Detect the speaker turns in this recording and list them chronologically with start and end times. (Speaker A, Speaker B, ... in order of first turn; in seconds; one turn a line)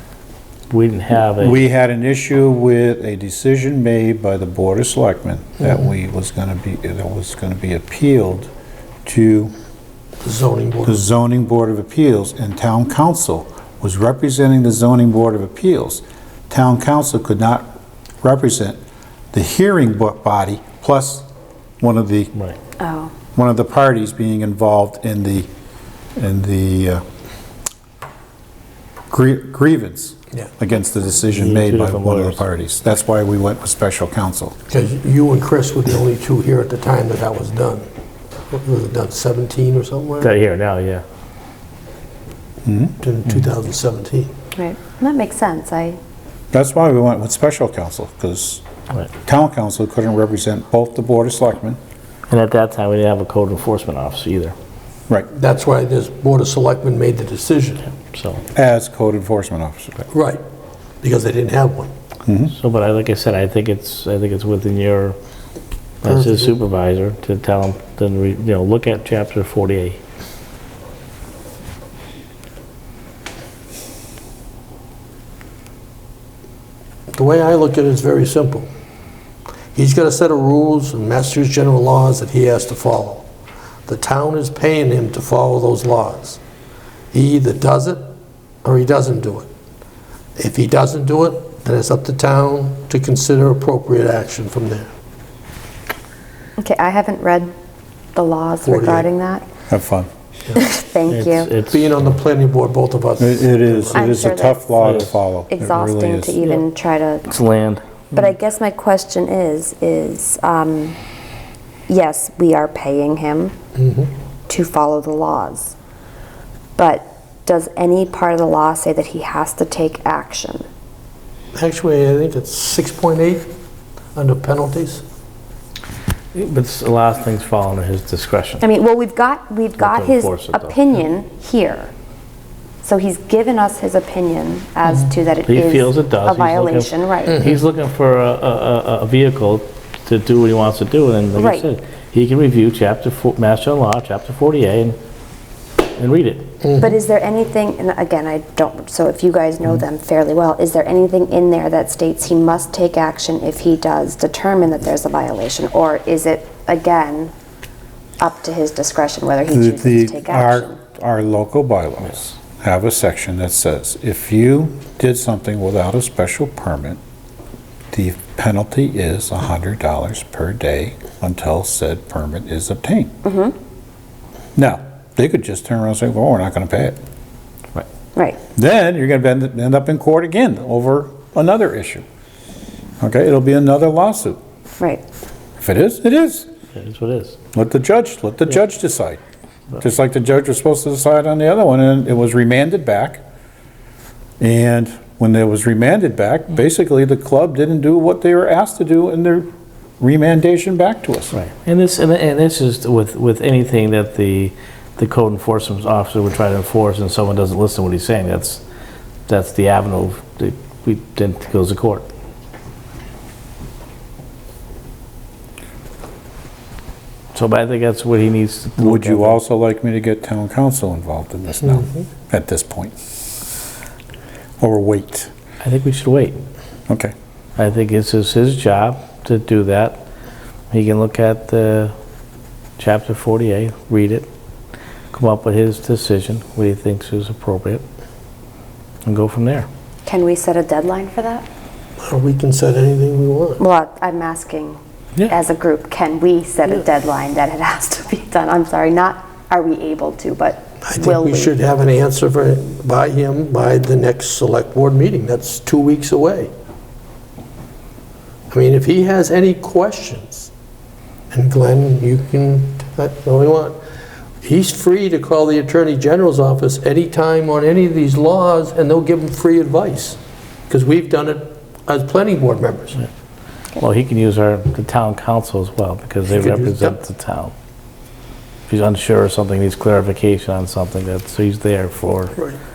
Speaker A: 0.7-1.6
Speaker B: 1.3-8.5
Speaker B: 9.0-9.5
Speaker C: 10.2-11.0
Speaker B: 10.8-18.8
Speaker B: 19.3-21.2
Speaker B: 21.8-22.3
Speaker D: 22.8-23.1
Speaker B: 23.3-25.5
Speaker B: 26.1-27.0
Speaker B: 29.1-34.5
Speaker A: 31.3-32.4
Speaker C: 34.7-37.9
Speaker C: 38.5-40.3
Speaker A: 40.2-41.0
Speaker B: 42.6-42.9
Speaker C: 43.0-44.3
Speaker D: 44.5-46.0
Speaker B: 46.5-48.6
Speaker B: 49.2-51.8
Speaker A: 52.3-54.5
Speaker C: 55.3-57.9
Speaker A: 58.0-58.4
Speaker B: 58.5-60.0
Speaker C: 60.1-60.4
Speaker C: 61.0-61.9
Speaker B: 62.2-62.5
Speaker A: 62.5-65.2
Speaker C: 66.0-66.5
Speaker A: 66.0-70.0
Speaker C: 77.1-78.7
Speaker C: 79.7-83.3
Speaker C: 83.9-86.4
Speaker C: 87.1-88.0
Speaker C: 88.6-89.5
Speaker C: 90.4-94.9
Speaker D: 96.6-97.5
Speaker D: 98.1-99.4
Speaker C: 98.6-99.1
Speaker B: 99.7-100.1
Speaker D: 100.5-101.5
Speaker A: 101.1-101.8
Speaker C: 101.6-104.2
Speaker B: 103.2-106.4
Speaker D: 103.9-104.6
Speaker A: 104.8-105.1
Speaker D: 105.5-107.3
Speaker A: 107.3-108.2
Speaker D: 108.1-111.0
Speaker D: 111.9-113.5
Speaker C: 113.8-114.1
Speaker D: 114.5-115.7
Speaker D: 116.8-120.6
Speaker C: 121.5-123.5
Speaker C: 124.1-125.0
Speaker A: 126.3-128.7
Speaker D: 128.6-131.9
Speaker A: 129.8-130.8
Speaker D: 132.8-137.4
Speaker A: 135.4-145.0
Speaker C: 137.3-137.6
Speaker D: 141.3-141.7
Speaker A: 145.9-146.5
Speaker C: 146.6-146.9
Speaker D: 146.8-157.3
Speaker D: 158.2-160.8
Speaker B: 159.5-167.0
Speaker B: 167.9-173.1
Speaker D: 173.2-173.5
Speaker B: 174.6-177.0
Speaker D: 178.1-178.4
Speaker B: 178.5-182.0
Speaker B: 183.0-184.4
Speaker D: 184.8-185.0
Speaker B: 185.6-186.5
Speaker A: 186.7-187.4
Speaker B: 187.5-189.2
Speaker B: 189.8-193.2
Speaker B: 194.4-201.4
Speaker A: 201.3-208.6
Speaker A: 209.3-212.1
Speaker A: 217.3-219.4
Speaker B: 218.8-223.0
Speaker B: 224.6-225.3
Speaker A: 225.6-226.4
Speaker A: 227.6-230.0
Speaker A: 230.7-231.9
Speaker A: 232.8-234.3
Speaker A: 235.1-237.8
Speaker A: 239.0-239.7
Speaker D: 240.1-241.5
Speaker C: 242.0-243.6
Speaker D: 243.6-251.6
Speaker C: 250.8-256.5
Speaker C: 258.5-260.5
Speaker C: 261.3-263.8
Speaker C: 264.4-273.0
Speaker A: 273.8-277.5
Speaker C: 276.3-277.0
Speaker A: 278.7-282.4